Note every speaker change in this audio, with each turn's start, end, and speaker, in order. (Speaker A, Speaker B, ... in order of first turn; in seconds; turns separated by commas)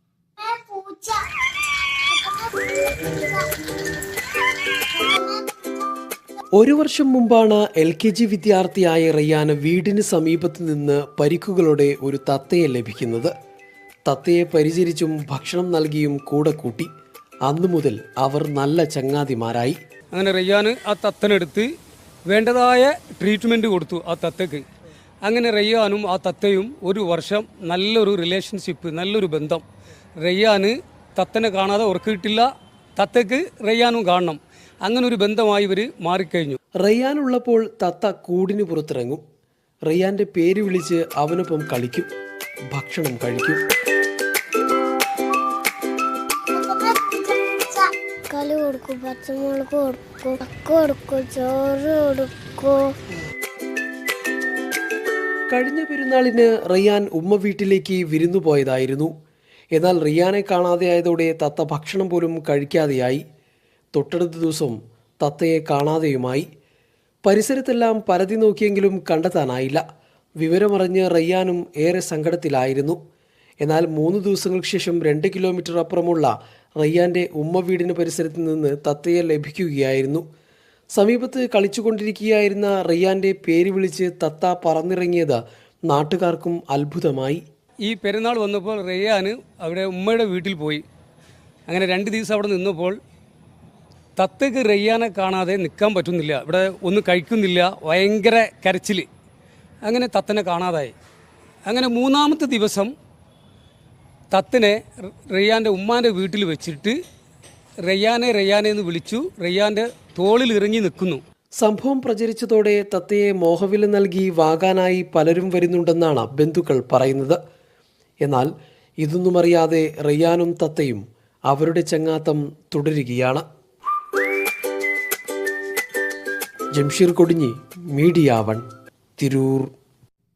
Speaker A: 0.4-3.5, Speaker A: 5.0-5.4, Speaker B: 6.6-13.3, Speaker B: 14.1-16.9, Speaker B: 17.5-19.8, Speaker C: 20.1-21.7, Speaker C: 22.3-24.6, Speaker C: 25.2-29.6, Speaker C: 30.2-36.6, Speaker B: 36.8-39.2, Speaker B: 39.9-42.1, Speaker B: 42.7-43.6, Speaker A: 46.5-53.0, Speaker B: 55.5-59.1, Speaker B: 59.7-63.2, Speaker B: 64.0-66.5, Speaker B: 67.2-69.8, Speaker B: 70.4-73.0, Speaker B: 73.6-80.2, Speaker B: 81.0-87.4, Speaker C: 87.8-90.8, Speaker C: 91.7-93.0, Speaker C: 94.2-99.1, Speaker C: 99.8-100.9, Speaker C: 101.7-102.9, Speaker C: 104.3-104.8, Speaker C: 105.3-107.0, Speaker C: 107.9-111.2, Speaker B: 111.6-117.4, Speaker B: 118.2-118.5, Speaker B: 119.0-123.4, Speaker B: 126.8-128.6, Speaker B: 129.2-129.7